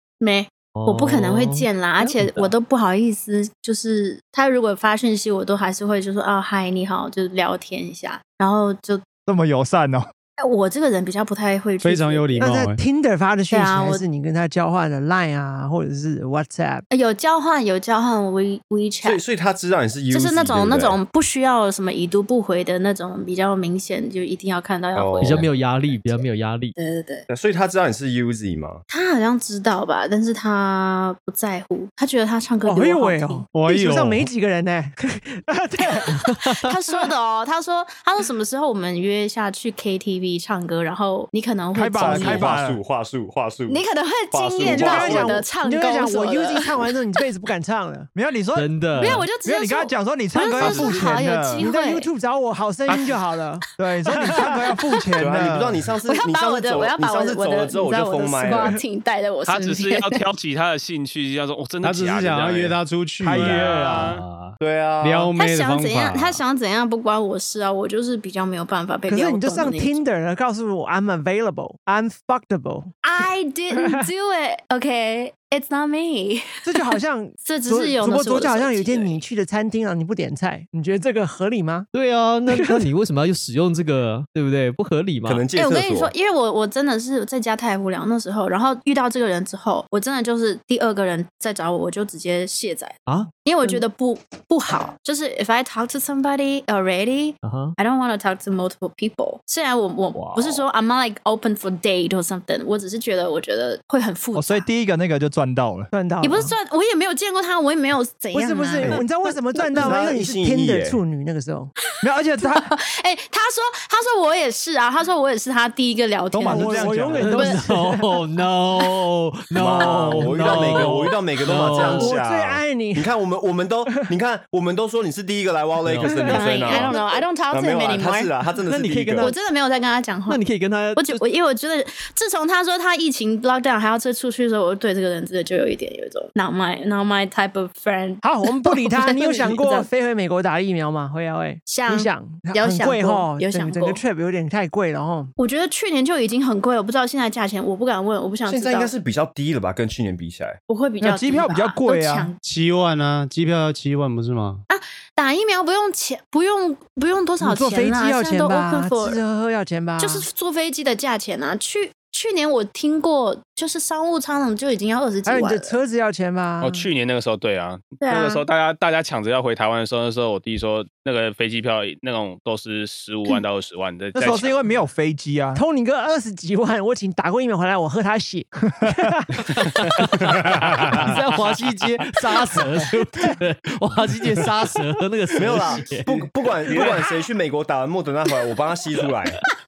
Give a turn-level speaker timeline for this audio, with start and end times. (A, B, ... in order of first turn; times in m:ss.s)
0:00.2-0:09.0 A
0:00.7-0:02.5 B
0:09.3-0:10.1 C
0:10.4-0:12.4 A
0:11.8-0:12.8 D
0:12.4-0:16.8 E
0:13.5-0:14.0 A
0:16.9-0:19.2 A
0:19.0-0:21.0 F
0:20.1-0:25.4 A
0:24.9-0:26.2 F
0:25.2-0:26.7 B
0:26.8-0:27.3 A
0:27.3-0:28.8 F
0:28.9-0:33.4 A
0:32.6-0:36.4 E
0:33.5-0:34.3 D
0:36.6-0:42.5 A
0:41.7-0:42.8 C
0:42.0-0:45.4 F
0:43.7-0:46.6 A
0:44.7-0:48.1 E
0:48.1-0:51.7 C
0:48.5-0:49.3 B
0:49.0-0:52.1 A
0:50.5-0:54.5 E
0:52.9-0:53.1 G
0:53.8-0:55.7 C
0:55.2-0:58.8 F
0:56.1-1:00.2 A
0:59.5-1:04.2 G
1:01.8-1:06.4 D
1:03.2-1:04.2 C
1:04.6-1:05.3 F
1:05.4-1:10.0 A
1:09.1-1:13.0 E
1:13.0-1:19.2 A
1:16.6-1:21.9 E
1:21.9-1:25.4 B
1:22.5-1:22.8 E
1:25.2-1:26.1 F
1:25.6-1:44.7 A
1:33.0-1:33.8 B
1:37.4-1:37.7 B
1:40.1-1:40.6 B
1:44.3-1:45.9 C
1:45.9-1:46.5 E
1:46.2-1:49.0 A
1:48.3-1:51.7 E
1:48.8-1:49.0 F
1:49.6-1:51.0 F
1:52.0-1:52.7 C
1:52.4-1:57.6 A
1:56.3-1:57.3 C
1:56.4-1:58.1 E
1:57.2-2:02.1 B
1:59.5-2:09.3 F
1:59.8-2:00.8 E
2:01.7-2:03.1 E
2:05.8-2:06.8 B
2:06.3-2:08.3 A
2:08.6-2:09.4 B
2:09.2-2:19.9 A
2:10.3-2:11.2 B
2:18.2-2:25.3 E
2:21.6-2:24.0 A
2:25.4-2:28.9 A
2:28.4-2:30.6 F
2:30.7-2:32.4 A
2:31.0-2:32.3 C
2:32.4-2:34.6 D
2:34.7-2:39.2 A
2:37.4-2:40.2 E
2:40.0-2:45.7 A
2:45.2-2:46.9 E
2:46.6-2:54.7 G
2:48.0-2:48.4 A
2:54.2-2:55.6 C
2:55.5-2:59.3 E
2:58.8-2:59.1 C
3:00.6-3:01.1 G
3:00.9-3:06.9 B
3:05.4-3:09.4 F
3:06.7-3:07.0 G